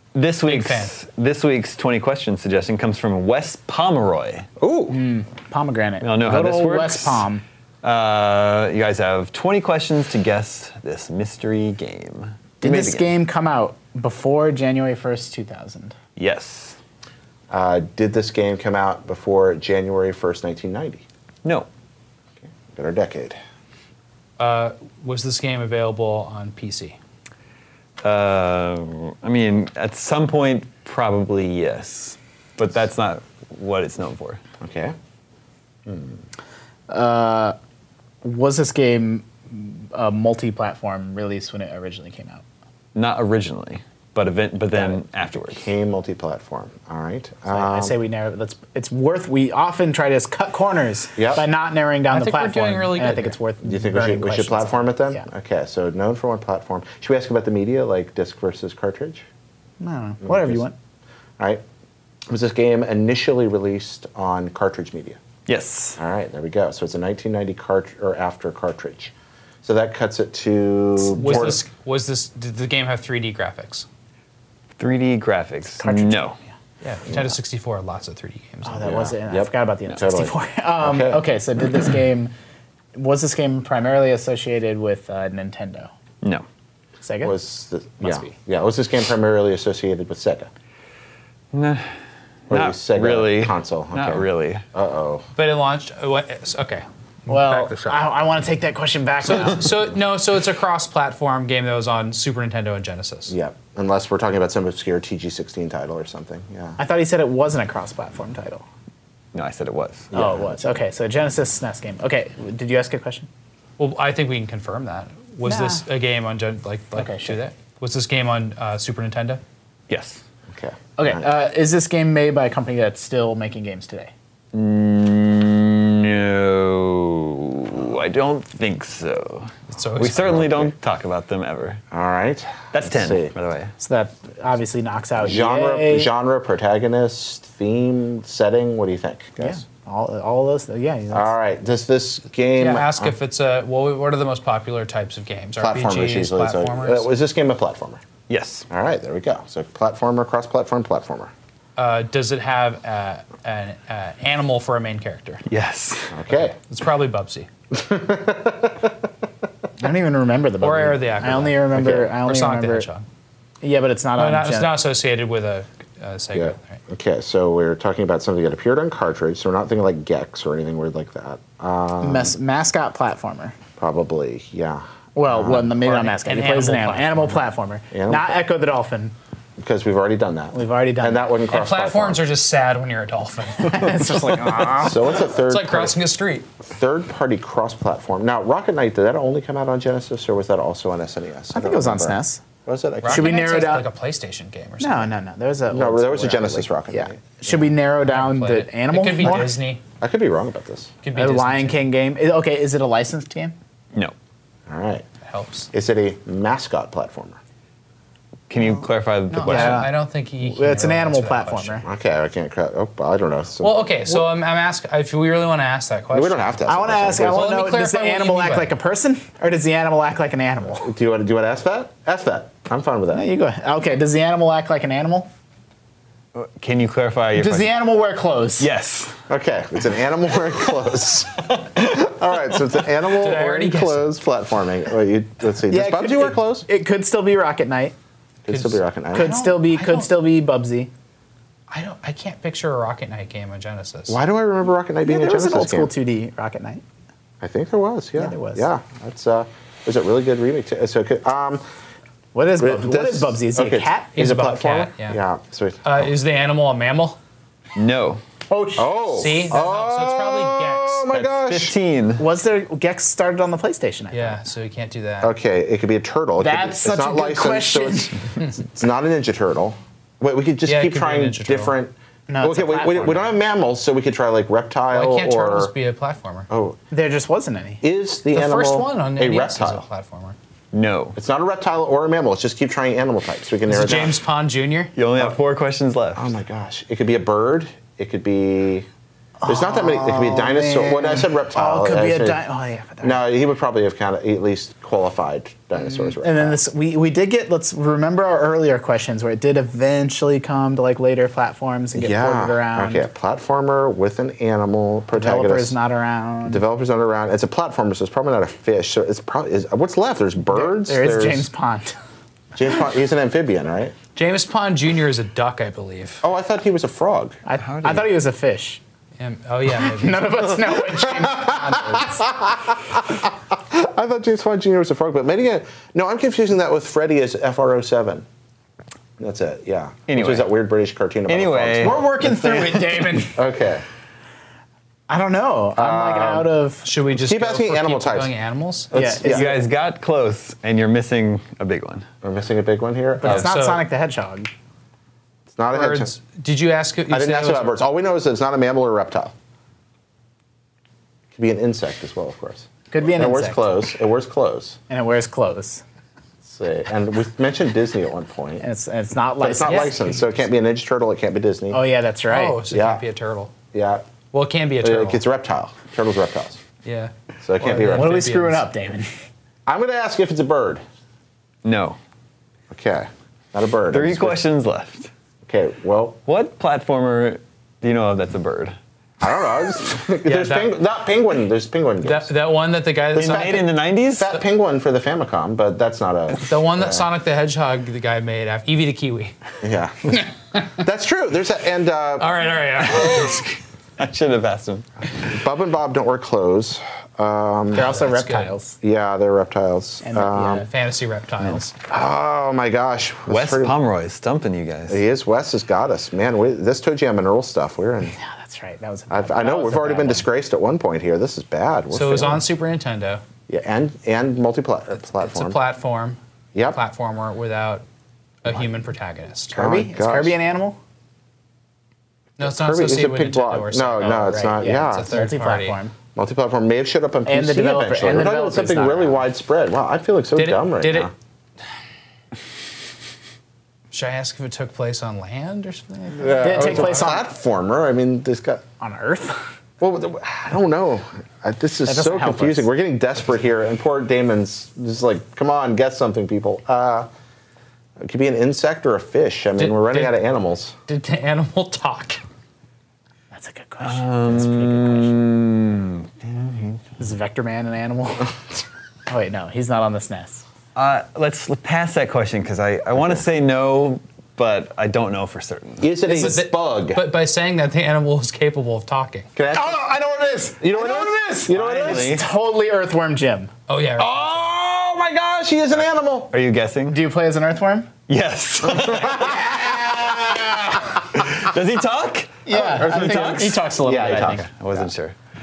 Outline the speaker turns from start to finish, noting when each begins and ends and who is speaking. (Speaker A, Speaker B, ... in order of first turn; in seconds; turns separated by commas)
Speaker A: 0.1-4.5, Speaker B: 0.5-0.9, Speaker C: 4.6-5.0, Speaker D: 4.9-7.4, Speaker A: 6.0-7.2, Speaker A: 7.8-13.1, Speaker D: 12.6-15.9, Speaker A: 16.2-16.8, Speaker C: 17.5-21.0, Speaker C: 22.7-23.4, Speaker B: 24.4-27.0, Speaker A: 28.0-34.4, Speaker C: 34.6-35.0, Speaker C: 35.9-36.2, Speaker D: 36.9-37.6, Speaker D: 38.2-42.4, Speaker A: 43.0-45.7, Speaker C: 45.5-48.0, Speaker D: 47.5-55.2, Speaker C: 51.2-51.5, Speaker B: 52.1-53.4, Speaker C: 53.6-59.2, Speaker D: 59.8-60.8, Speaker C: 60.2-60.6, Speaker C: 62.3-65.2, Speaker A: 65.5-66.0, Speaker C: 66.0-71.6, Speaker B: 71.1-73.9, Speaker A: 74.8-76.4, Speaker D: 75.8-76.3, Speaker B: 76.8-78.9, Speaker C: 77.1-77.3, Speaker D: 78.7-82.3, Speaker C: 78.8-81.2, Speaker D: 83.0-85.9, Speaker D: 87.0-87.3, Speaker C: 87.2-90.5, Speaker D: 88.0-88.3, Speaker A: 91.5-91.9, Speaker A: 92.5-94.6, Speaker C: 92.5-95.3, Speaker B: 95.4-98.0, Speaker D: 97.3-99.7, Speaker B: 99.2-103.3, Speaker C: 103.3-106.8, Speaker D: 106.8-108.6, Speaker A: 109.3-110.1, Speaker C: 110.1-110.8, Speaker D: 110.1-113.3, Speaker B: 113.8-119.4, Speaker D: 115.5-115.8, Speaker D: 117.0-117.4, Speaker A: 119.9-120.2, Speaker C: 120.5-121.3, Speaker D: 121.0-124.1, Speaker A: 124.5-131.8, Speaker B: 129.7-130.3, Speaker C: 130.2-130.7, Speaker C: 131.9-133.3, Speaker A: 132.7-133.7, Speaker D: 133.8-136.1, Speaker C: 135.2-139.6, Speaker D: 139.4-141.3, Speaker C: 141.1-143.1, Speaker B: 142.6-147.1, Speaker C: 145.6-148.0, Speaker A: 148.3-148.7, Speaker C: 148.7-151.3, Speaker B: 151.8-155.4, Speaker A: 155.5-156.2, Speaker C: 156.1-156.6, Speaker B: 156.6-157.5, Speaker C: 157.7-158.9, Speaker D: 159.8-162.9, Speaker B: 160.6-163.1, Speaker C: 161.7-162.1, Speaker D: 163.6-164.8, Speaker B: 164.2-166.8, Speaker C: 166.3-172.3, Speaker D: 172.0-173.6, Speaker C: 173.8-175.7, Speaker D: 175.2-179.2, Speaker B: 175.8-177.5, Speaker C: 177.9-178.3, Speaker C: 179.6-182.2, Speaker D: 180.5-181.4, Speaker B: 181.5-184.3, Speaker D: 183.6-185.0, Speaker C: 184.7-186.0, Speaker B: 185.2-186.5, Speaker C: 186.7-193.7, Speaker D: 191.5-192.4, Speaker B: 193.0-195.1, Speaker D: 193.1-193.9, Speaker D: 194.8-199.6, Speaker C: 195.7-197.4, Speaker B: 198.0-199.8, Speaker C: 200.0-200.9, Speaker B: 201.0-201.9, Speaker D: 201.1-203.6, Speaker C: 204.7-205.1, Speaker B: 205.2-205.7, Speaker C: 205.7-207.4, Speaker A: 208.5-209.9, Speaker B: 209.3-211.8, Speaker D: 209.3-211.8, Speaker C: 211.8-214.0, Speaker B: 213.6-216.5, Speaker C: 216.1-217.6, Speaker D: 216.7-220.9, Speaker B: 217.3-218.7, Speaker C: 220.8-223.3, Speaker D: 223.1-225.3, Speaker A: 226.3-227.8, Speaker D: 227.3-228.7, Speaker A: 228.6-229.2, Speaker C: 229.3-236.7, Speaker B: 233.1-234.1, Speaker D: 235.7-237.9, Speaker C: 238.4-239.5, Speaker B: 238.5-240.2, Speaker D: 239.1-240.9, Speaker B: 241.7-244.2, Speaker C: 244.1-245.9, Speaker D: 245.1-246.8, Speaker C: 247.4-251.6, Speaker D: 248.2-248.7, Speaker D: 252.3-254.3, Speaker C: 252.6-256.1, Speaker B: 254.2-255.2, Speaker B: 255.8-257.2, Speaker A: 257.8-258.2, Speaker D: 258.5-258.9, Speaker C: 258.8-261.7, Speaker B: 259.1-261.0, Speaker A: 261.1-262.3, Speaker D: 262.2-264.4, Speaker B: 264.1-265.3, Speaker C: 265.2-275.7, Speaker D: 266.4-268.2, Speaker B: 270.6-271.7, Speaker D: 272.3-273.3, Speaker B: 274.9-276.5, Speaker C: 276.5-276.8, Speaker D: 276.9-277.8, Speaker C: 277.8-279.8, Speaker B: 278.3-280.4, Speaker A: 280.7-281.2, Speaker C: 281.2-284.2, Speaker B: 283.7-284.9, Speaker A: 285.0-286.3, Speaker C: 286.1-288.9, Speaker D: 289.4-293.2, Speaker C: 289.5-292.4, Speaker C: 293.0-296.6, Speaker D: 295.8-303.1, Speaker C: 301.9-305.8, Speaker D: 305.1-306.6, Speaker C: 306.5-311.5, Speaker D: 310.5-311.9, Speaker C: 312.6-313.9, Speaker B: 314.2-316.2, Speaker C: 316.2-317.4, Speaker D: 317.5-318.8, Speaker A: 317.6-318.1, Speaker B: 319.2-320.6, Speaker D: 319.8-322.3, Speaker C: 320.9-328.2, Speaker C: 329.2-332.1, Speaker A: 330.1-330.5, Speaker A: 331.3-333.2, Speaker D: 331.8-333.4, Speaker C: 333.2-333.8, Speaker D: 335.1-336.9, Speaker C: 335.8-336.5, Speaker B: 336.8-338.9, Speaker C: 337.1-338.3, Speaker C: 338.9-339.5, Speaker D: 338.9-339.6, Speaker A: 339.2-342.1, Speaker C: 342.2-343.5, Speaker D: 343.2-344.5, Speaker B: 343.2-343.8, Speaker C: 345.5-346.1, Speaker B: 345.7-347.8, Speaker C: 347.1-349.3, Speaker C: 351.3-354.8, Speaker D: 352.9-353.7, Speaker D: 354.9-355.8, Speaker C: 356.4-358.6, Speaker D: 358.6-360.2, Speaker C: 359.4-361.8, Speaker B: 359.7-360.2, Speaker D: 361.7-362.6, Speaker B: 362.3-363.5, Speaker C: 362.7-363.0, Speaker C: 363.7-364.1, Speaker B: 364.3-365.2, Speaker C: 364.8-366.6, Speaker B: 366.8-368.7, Speaker C: 367.4-368.3, Speaker D: 367.8-369.1, Speaker C: 369.7-370.8, Speaker A: 371.6-372.0, Speaker C: 372.7-374.4, Speaker A: 373.9-375.1, Speaker C: 375.5-376.2, Speaker A: 376.3-378.8, Speaker C: 379.2-382.3, Speaker B: 380.3-380.7, Speaker B: 382.0-383.7, Speaker A: 383.1-384.4, Speaker C: 384.2-387.1, Speaker B: 386.4-389.4, Speaker C: 389.6-392.4, Speaker B: 392.2-393.6, Speaker A: 394.0-394.9, Speaker C: 395.2-398.0, Speaker D: 397.7-398.8, Speaker B: 397.7-398.5, Speaker C: 398.8-400.7, Speaker D: 400.0-400.7, Speaker B: 400.6-401.8, Speaker C: 401.9-403.8, Speaker A: 403.3-405.0, Speaker C: 404.9-408.2, Speaker D: 408.1-410.3, Speaker C: 409.1-412.4, Speaker B: 411.9-413.2, Speaker C: 413.5-415.6, Speaker B: 415.0-416.2, Speaker B: 416.7-417.8, Speaker B: 418.4-419.6, Speaker C: 419.5-420.4, Speaker D: 419.6-420.8, Speaker C: 422.4-425.3, Speaker B: 422.4-425.8, Speaker D: 424.1-425.9, Speaker C: 426.1-431.1, Speaker D: 427.3-429.2, Speaker B: 430.4-431.1, Speaker B: 433.9-436.8, Speaker C: 436.1-438.6, Speaker D: 436.4-437.3, Speaker D: 438.8-439.4, Speaker C: 439.8-447.1, Speaker D: 441.9-442.7, Speaker C: 448.0-450.8, Speaker B: 449.6-450.2, Speaker B: 450.9-452.2, Speaker D: 453.3-455.1, Speaker A: 453.8-456.8, Speaker D: 457.0-460.4, Speaker A: 460.8-465.9, Speaker C: 465.8-467.1, Speaker B: 466.1-469.3, Speaker C: 469.4-472.2, Speaker D: 469.5-473.5, Speaker A: 471.5-472.3, Speaker B: 473.7-474.3, Speaker C: 474.0-476.3, Speaker A: 476.3-477.0, Speaker D: 476.9-477.9, Speaker A: 478.1-485.2, Speaker C: 478.7-479.6, Speaker D: 482.5-484.5, Speaker C: 482.5-484.8